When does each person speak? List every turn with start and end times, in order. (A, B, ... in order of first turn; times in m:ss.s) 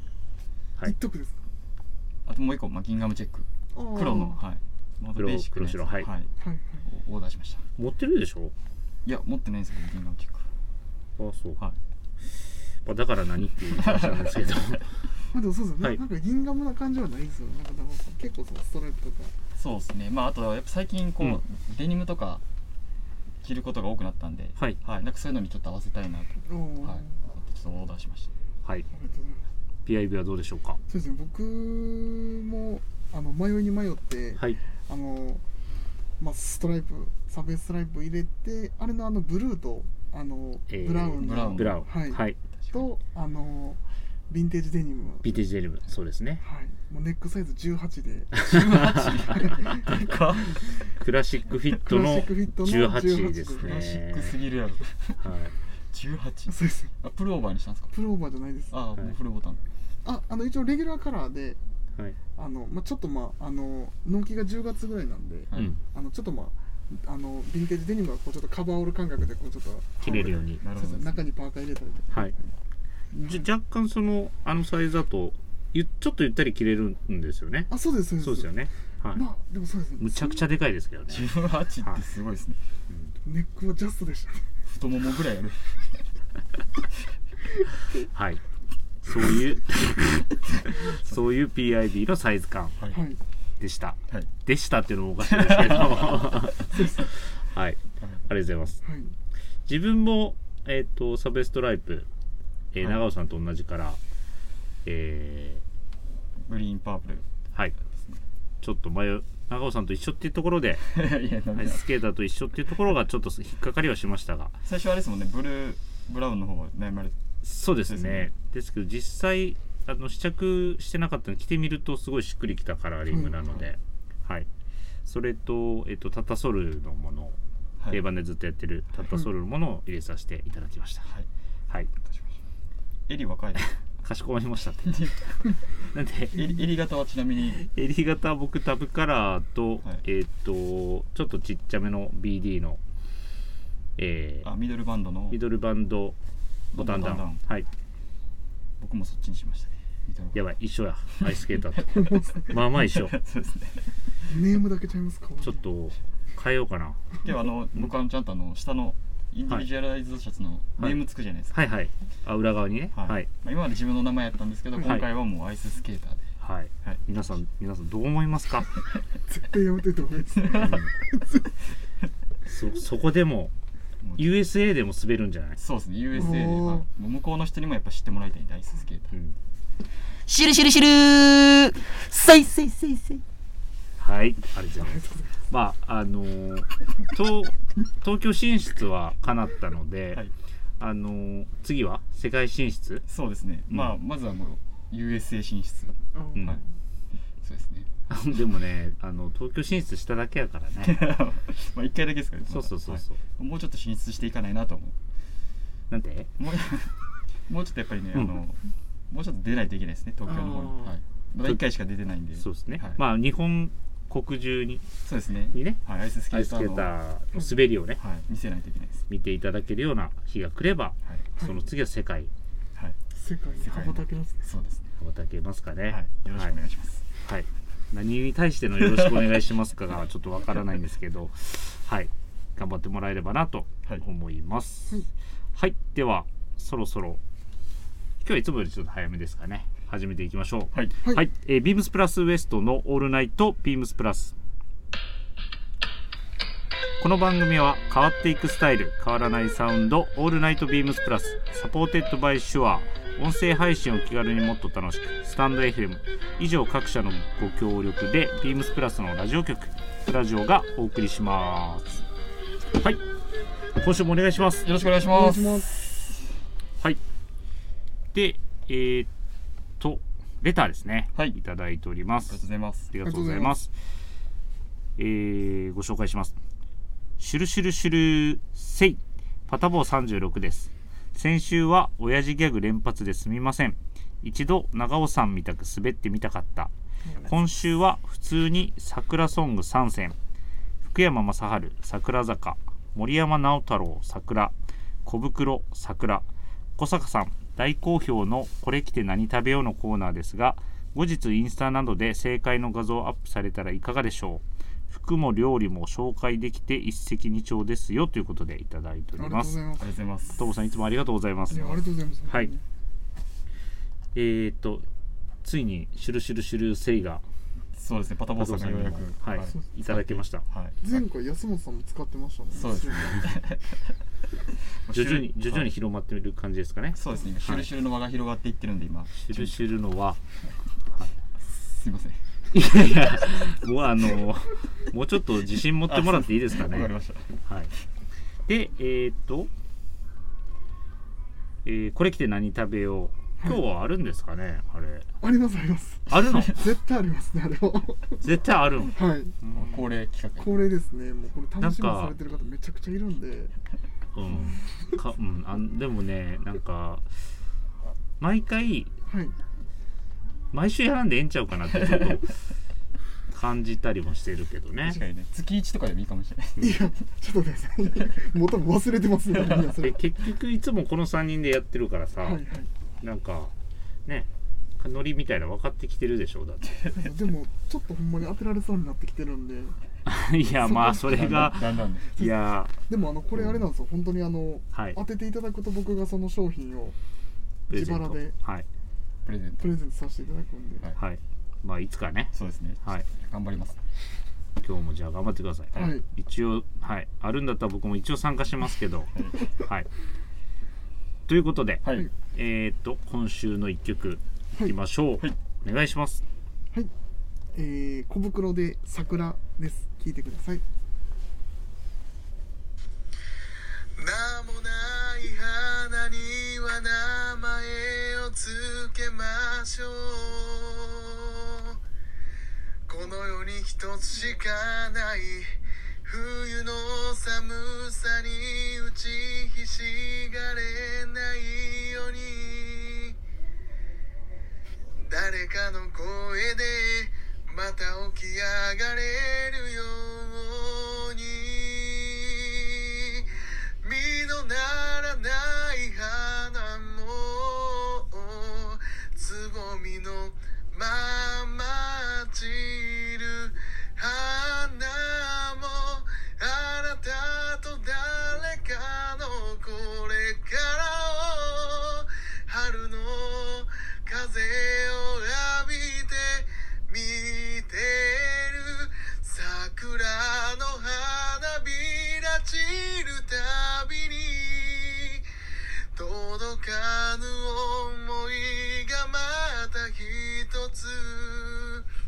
0:00.8-0:01.4 A
0:02.3-0:06.3 B
0:03.8-0:04.4 A
0:05.2-0:06.1 C
0:06.4-0:06.8 A
0:06.9-0:07.7 B
0:07.8-0:08.5 C
0:09.0-0:10.5 B
0:11.2-0:11.6 C
0:12.8-0:15.0 C
0:13.7-0:14.3 B
0:15.3-0:19.3 A
0:19.6-0:22.4 B
0:23.4-0:28.3 B
0:26.5-0:27.2 A
0:28.9-0:29.4 A
0:29.9-0:30.8 C
0:30.9-0:35.4 A
0:36.2-0:45.4 A
0:40.7-0:42.4 C
0:41.2-0:41.9 B
0:42.5-0:42.8 B
0:45.2-0:46.4 C
0:46.4-0:48.6 A
0:48.3-0:50.0 C
0:48.4-0:50.6 B
0:49.3-0:50.0 A
0:50.9-0:54.4 C
0:51.7-0:53.8 A
0:53.6-0:55.2 B
0:55.2-0:55.5 C
0:55.9-0:57.9 B
0:56.5-0:56.9 A
0:57.9-0:58.8 A
0:58.7-0:59.6 B
1:00.0-1:01.6 A
1:02.4-1:12.5 A
1:10.0-1:10.6 C
1:10.0-1:11.3 B
1:13.1-1:13.5 A
1:13.2-1:19.2 C
1:17.7-1:18.5 A
1:19.2-1:20.5 A
1:20.0-1:21.3 C
1:21.1-1:22.6 B
1:23.2-1:24.5 A
1:24.7-1:25.8 B
1:28.1-1:28.4 C
1:29.0-1:32.8 C
1:30.5-1:31.2 B
1:32.9-1:33.2 A
1:33.6-1:38.8 C
1:35.3-1:36.2 B
1:38.8-1:39.1 A
1:39.7-1:42.1 C
1:42.7-1:44.0 C
1:44.8-1:45.6 C
1:46.4-1:47.3 B
1:47.8-1:48.2 B
1:48.6-1:50.8 C
1:50.8-1:51.9 B
1:51.6-1:54.6 C
1:54.6-1:57.2 B
1:57.4-2:04.5 C
1:57.8-1:58.3 B
2:03.1-2:03.3 A
2:05.0-2:07.4 C
2:07.9-2:11.1 C
2:12.0-2:12.4 B
2:13.1-2:13.6 B
2:14.0-2:15.0 C
2:14.8-2:15.5 B
2:15.8-2:16.4 C
2:16.3-2:17.6 B
2:17.4-2:22.8 C
2:24.0-2:24.5 C
2:24.4-2:25.4 B
2:25.3-2:26.2 C
2:26.7-2:27.4 B
2:26.7-2:27.7 C
2:28.8-2:30.4 B
2:30.4-2:33.1 C
2:31.2-2:31.8 B
2:31.9-2:32.5 A
2:32.5-2:33.9 B
2:34.3-2:35.6 A
2:35.4-2:37.1 C
2:37.2-2:41.6 B
2:41.5-2:43.3 C
2:42.9-2:46.3 B
2:46.4-2:48.7 C
2:49.3-2:50.8 A
2:50.4-2:50.8 B
2:50.6-2:50.9 C
2:52.5-2:53.5 C
2:54.0-2:54.4 B
2:54.2-2:55.6 C
2:55.6-2:59.2 B
2:56.2-2:56.9 A
3:00.3-3:03.2 D
3:00.3-3:00.8 B
3:04.0-3:10.2 C
3:04.8-3:05.4 A
3:10.8-3:13.0 C
3:13.1-3:16.6 B
3:16.2-3:16.6 A
3:17.4-3:18.0 B
3:18.1-3:21.0 C
3:20.8-3:25.0 B
3:22.5-3:23.2 C
3:25.9-3:26.3 C
3:26.4-3:27.0 B
3:27.5-3:33.0 B
3:30.3-3:31.0 A
3:32.4-3:34.9 C
3:35.0-3:36.9 B
3:35.5-3:38.0 C
3:38.0-3:39.0 B
3:39.1-3:42.3 C
3:43.2-3:44.4 A
3:43.6-3:44.9 B
3:45.0-3:46.6 C
3:45.9-3:47.0 B
3:47.2-3:57.2 C
3:49.0-3:49.2 B
3:58.2-4:04.4 C
4:07.0-4:22.0 C
4:22.7-4:23.0 C
4:23.8-4:24.7 C
4:24.6-4:26.4 B
4:25.0-4:25.7 A
4:28.1-4:29.1 C
4:29.8-4:33.7 C
4:32.3-4:32.9 B
4:33.0-4:33.6 A
4:35.0-4:36.4 C
4:37.2-4:46.7 C
4:47.0-4:47.4 A
4:47.3-4:50.2 C
4:50.8-5:09.6 C
5:09.2-5:09.9 A
5:09.8-5:10.4 B
5:10.4-5:12.5 C
5:11.5-5:12.6 A
5:14.1-5:14.9 C
5:15.4-5:17.2 C
5:17.7-5:20.8 B
5:18.4-5:20.4 C
5:20.8-5:23.4 A
5:22.5-5:24.0 B
5:24.8-5:25.7 B
5:24.9-5:27.7 C
5:27.0-5:29.6 B
5:29.2-5:30.2 C
5:31.4-5:32.2 B
5:32.5-5:36.9 C
5:35.8-5:37.4 B
5:37.4-5:37.7 C
5:38.5-5:39.5 C
5:41.6-5:45.1 C
5:45.2-5:48.2 A
5:46.1-5:46.6 C
5:48.2-5:49.0 C
5:48.9-5:49.4 A
5:49.5-5:50.7 B
5:50.4-5:53.5 A
5:51.6-5:52.2 C
5:54.2-5:57.1 C
5:58.2-5:58.9 C
5:59.1-5:59.3 A
6:00.5-6:02.3 C
6:01.8-6:02.1 B
6:03.3-6:05.0 C
6:04.8-6:06.9 B
6:06.6-6:10.0 A
6:09.3-6:09.8 B
6:09.8-6:12.4 C
6:12.2-6:12.7 A
6:13.0-6:13.5 C
6:14.8-6:16.8 C
6:16.6-6:17.0 B
6:16.9-6:19.8 A
6:20.1-6:22.7 C
6:20.6-6:21.6 A
6:21.0-6:22.1 B
6:22.2-6:27.0 A
6:23.4-6:23.6 B
6:24.7-6:25.0 C
6:27.7-6:28.4 A
6:27.7-6:28.7 C
6:29.2-6:29.6 B
6:29.6-6:30.9 A
6:31.0-6:33.0 C
6:32.3-6:33.8 B
6:34.6-6:39.9 C
6:35.7-6:36.0 A
6:41.3-6:46.2 C
6:41.8-6:42.1 B
6:47.5-6:50.6 A
6:54.0-7:01.8 E
7:02.9-7:05.6 E
7:06.1-7:13.2 E
7:15.1-7:55.2 E
7:56.0-8:01.9 E